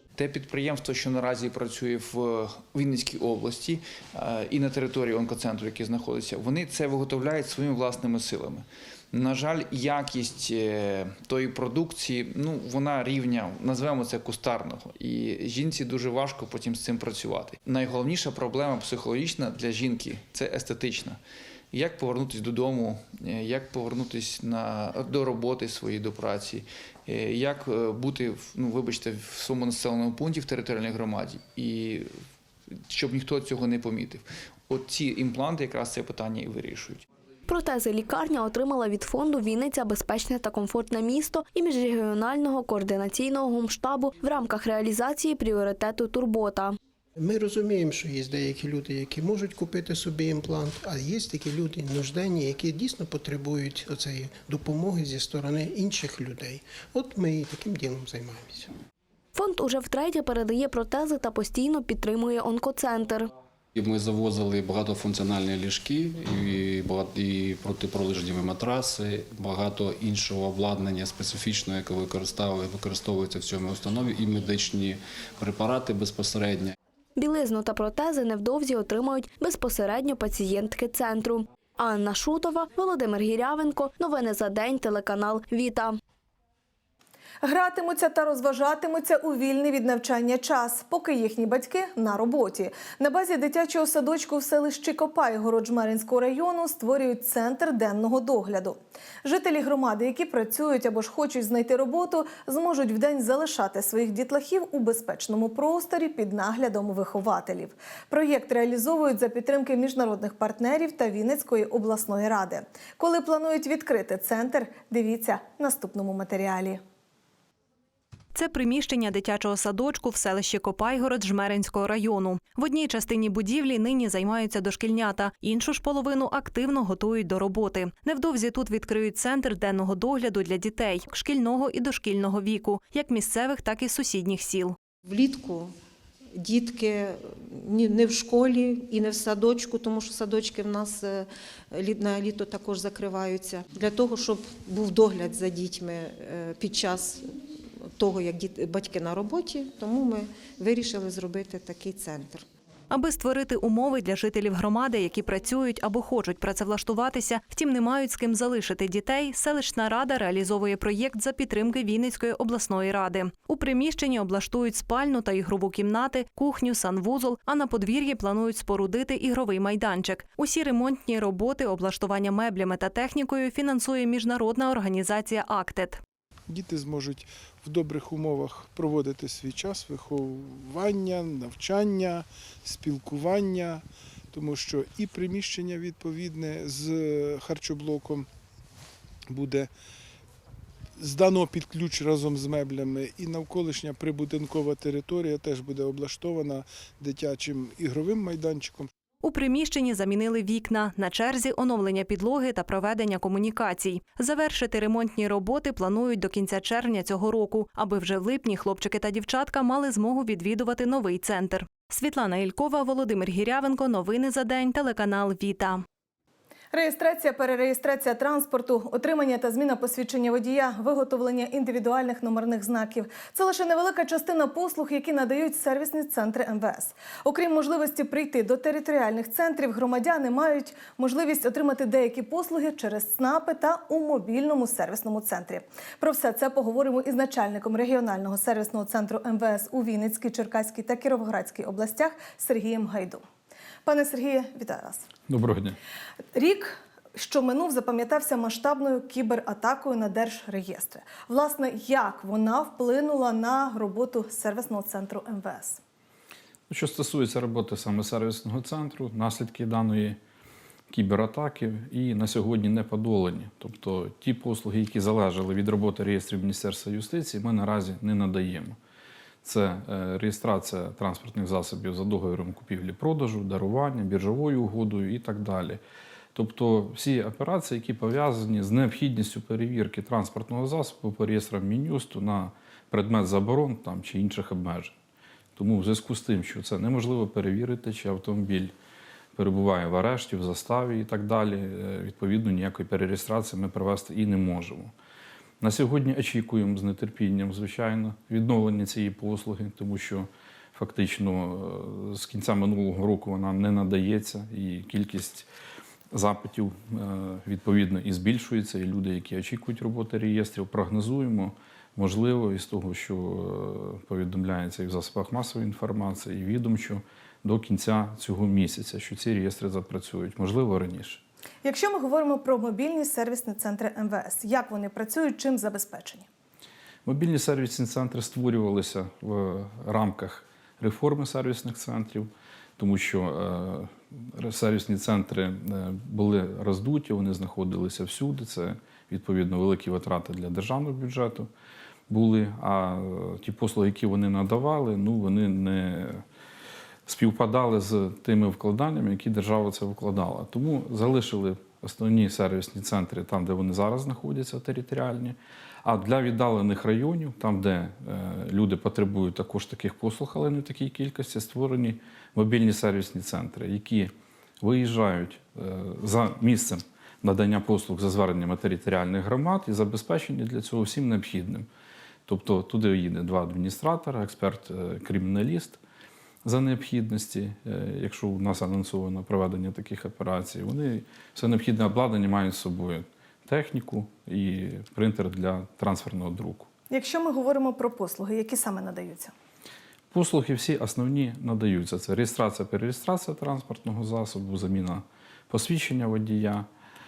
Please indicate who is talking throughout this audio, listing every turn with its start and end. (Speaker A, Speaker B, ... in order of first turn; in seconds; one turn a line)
Speaker A: 0.1-21.2
Speaker A: 21.7-32.1
Speaker A: 32.7-37.0
Speaker B: 37.5-46.8
Speaker C: 47.2-58.7
Speaker B: 59.3-63.3
Speaker D: 63.7-76.7
Speaker B: 77.2-86.0
Speaker E: 87.4-116.8
Speaker F: 118.3-134.8
Speaker G: 135.0-135.7
Speaker G: 136.3-152.4
Speaker F: 152.9-176.0
Speaker H: 176.5-188.3
Speaker H: 189.3-189.7
Speaker H: 191.0-198.9
Speaker F: 199.2-215.8
Speaker E: 216.7-243.2
Speaker E: 243.8-245.0
Speaker I: 245.3-245.8
Speaker E: 246.3-255.8
Speaker I: 256.7-260.2
Speaker I: 260.9-268.8
Speaker I: 269.4-275.8
Speaker I: 276.3-284.9
Speaker I: 285.6-288.7
Speaker I: 289.3-294.9
Speaker I: 295.6-305.5
Speaker I: 306.1-321.2
Speaker E: 321.6-326.2
Speaker I: 327.0-341.5
Speaker I: 342.1-346.2
Speaker I: 347.1-371.7
Speaker I: 372.2-375.8
Speaker I: 376.4-386.7
Speaker E: 386.9-389.3
Speaker I: 390.1-396.7